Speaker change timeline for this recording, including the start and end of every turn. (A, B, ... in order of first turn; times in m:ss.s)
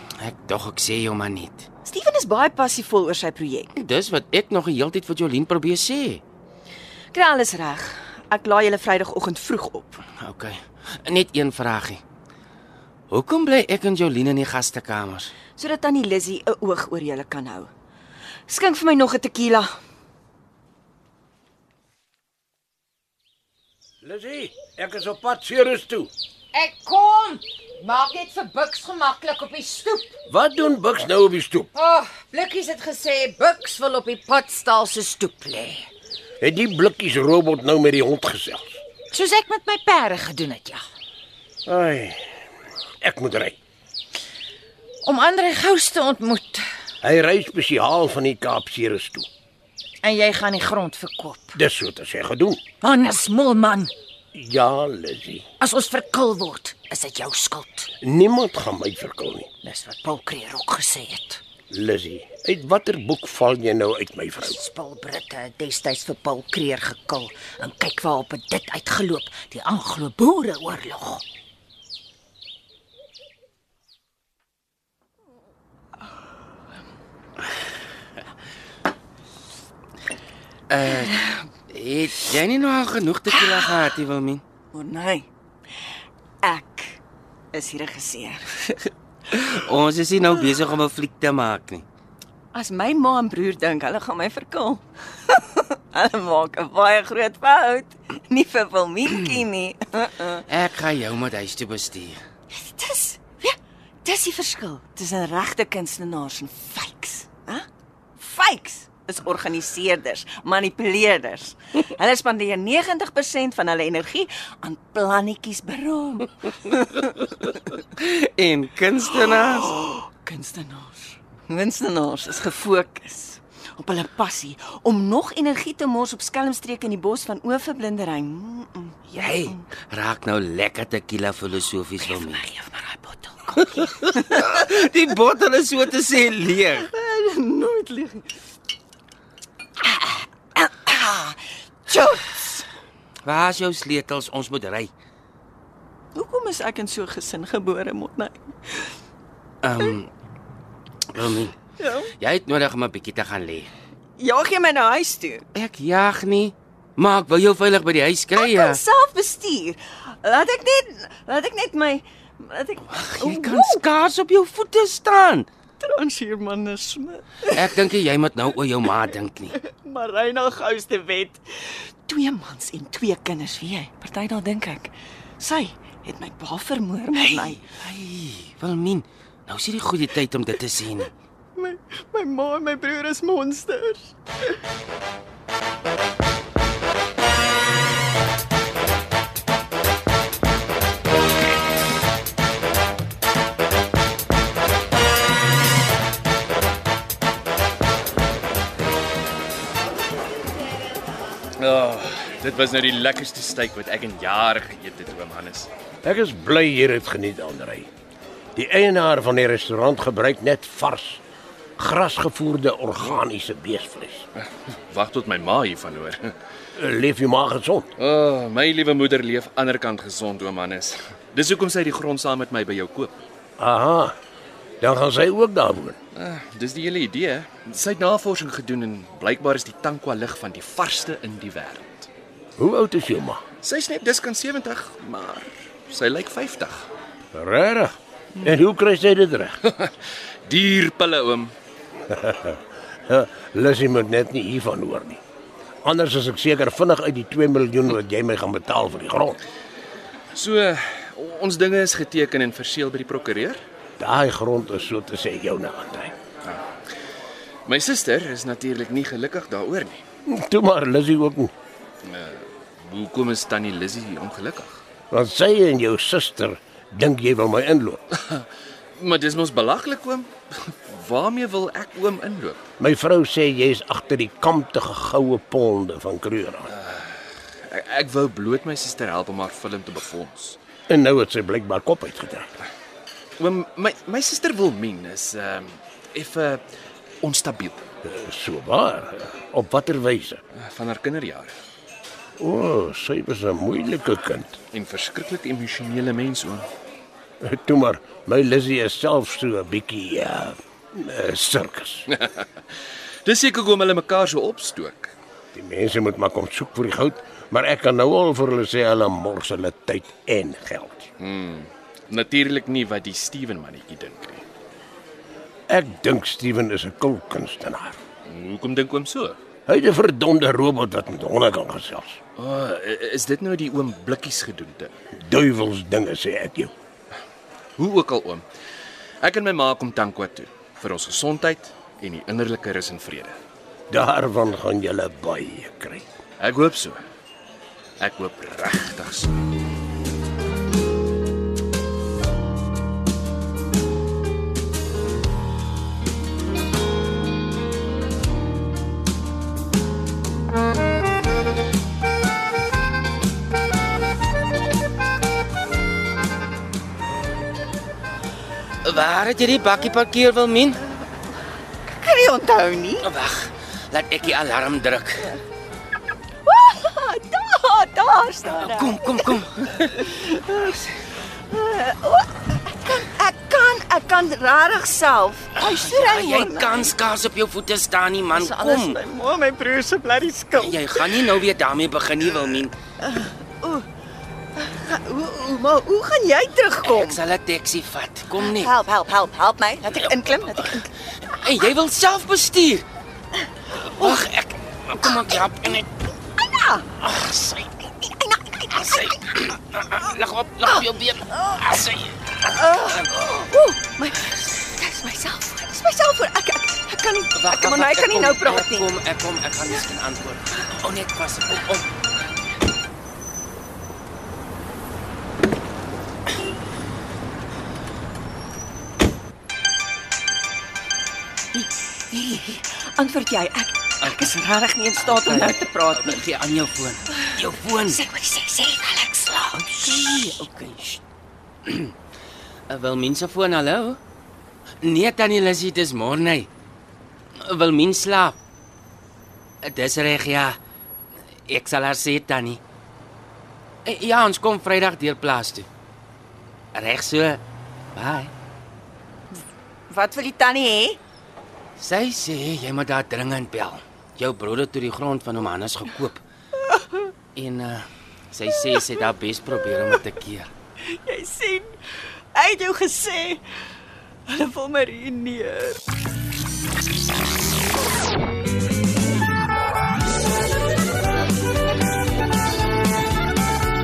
0:00.2-0:01.6 A
0:01.8-0:03.7 B
0:03.8-0:06.2 A
0:07.1-0:10.0 B
0:10.2-0:12.0 A
0:13.1-0:15.3 A
0:15.6-0:17.7 B
0:18.5-0:19.7 B
0:24.0-0:26.1 C
0:26.5-0:30.1 D
0:30.3-0:31.7 C
0:31.7-0:35.9 D
0:36.4-0:38.8 C
0:39.1-0:40.8 D
0:41.6-0:42.4 C
0:43.0-0:43.6 C
0:45.0-0:46.7 D
0:47.0-0:49.3 C
0:50.0-0:51.6 D
0:51.5-0:52.6 C
0:52.8-0:53.9 D
0:54.3-0:55.5 C
0:55.6-0:57.9 D
0:58.0-0:59.5 C
0:59.6-1:01.4 D
1:01.7-1:04.6 C
1:04.4-1:11.2 D
1:20.7-1:24.4 A
1:24.7-1:25.3 B
1:26.4-1:27.0 B
1:27.5-1:28.6 B
1:29.3-1:31.8 A
1:32.5-1:40.4 B
1:40.5-1:42.2 A
1:42.5-1:47.6 B
1:48.2-1:57.2 B
1:57.0-1:59.8 A
1:59.6-2:09.6 B
2:09.1-2:12.4 A
2:12.0-2:14.2 B
2:13.6-2:16.9 A
2:16.8-2:18.3 B
2:19.8-2:22.6 B
2:23.2-2:24.9 A
2:26.1-2:28.5 B
2:29.6-2:30.1 A
2:31.1-2:31.5 A
2:31.8-2:32.1 B
2:32.2-2:33.7 A
2:34.2-2:35.4 B
2:35.5-2:38.8 A
2:38.4-2:43.8 B
2:42.9-2:45.5 A
2:45.8-2:47.7 B
2:47.5-2:49.6 A
2:49.6-2:57.6 B
2:57.2-3:01.1 A
3:01.6-3:04.1 B
3:21.6-3:25.7 E
3:26.0-3:27.9 C
3:28.6-3:31.2 C
3:31.8-3:34.3 C
3:34.4-3:36.3 E
3:36.8-3:37.9 C
3:38.0-3:43.2 E
3:43.6-3:44.1 C
3:44.8-3:46.0 C
3:46.1-3:52.1 E
3:52.6-3:53.4 C
3:53.6-3:56.9 E
3:57.3-3:59.6 C
3:59.6-4:01.5 E
4:02.1-4:05.2 C
4:05.8-4:09.4 C
4:10.3-4:13.6 E
4:14.0-4:16.1 C
4:17.6-4:20.0 E
4:20.2-4:21.5 C
4:22.0-4:24.8 E
4:25.1-4:28.0 C
4:28.1-4:32.6 E
4:32.8-4:36.7 C
4:36.7-4:40.6 E
4:40.9-4:42.5 C
4:43.4-4:46.6 E
4:47.2-4:47.8 E
4:48.0-4:50.4 C
4:50.5-4:51.6 E
4:52.4-4:54.6 C
4:54.7-4:56.7 E
4:57.4-5:02.1 C
5:02.1-5:02.5 E
5:03.2-5:05.1 E
5:05.5-5:11.1 C
5:11.2-5:14.4 E
5:15.7-5:18.0 C
5:18.2-5:19.4 E
5:19.7-5:22.2 C
5:22.4-5:24.9 E
5:25.1-5:26.7 C
5:27.8-5:28.4 E
5:29.2-5:33.4 E
5:33.9-5:36.0 C
5:36.4-5:37.0 E
5:38.0-5:39.4 E
5:58.8-6:00.8 A
6:01.9-6:03.0 B
6:03.0-6:05.4 A
6:06.4-6:09.3 B
6:08.5-6:10.0 A
6:09.9-6:10.8 B
6:11.5-6:16.9 B
6:15.6-6:19.0 A
6:18.3-6:21.3 B
6:20.5-6:22.7 A
6:23.0-6:23.9 B
6:24.5-6:27.2 B
6:26.8-6:28.8 A
6:28.3-6:30.9 B
6:30.0-6:32.8 A
6:33.8-6:35.9 A
6:34.0-6:34.2 B
6:35.0-6:35.4 B
6:36.3-6:37.0 B
6:37.0-6:37.6 A
6:37.8-6:39.2 B
6:38.7-6:43.1 A
6:42.5-6:48.9 B
6:47.3-6:51.8 A
7:01.5-7:06.3 B
7:04.0-7:04.4 A
7:05.0-7:08.0 A
7:07.9-7:10.7 B
7:09.5-7:11.0 A
7:11.6-7:11.9 A
7:12.7-7:14.0 A
7:14.8-7:16.5 A
7:17.4-7:18.4 A
7:19.6-7:20.6 A
7:21.4-7:22.6 A
7:23.8-7:25.7 A
7:26.7-7:27.4 A
7:27.9-7:28.3 A
7:29.9-7:31.0 B
7:31.8-7:36.2 A
7:37.3-7:40.5 A
7:40.8-7:41.7 B
7:42.3-7:43.4 B
7:44.3-7:45.8 B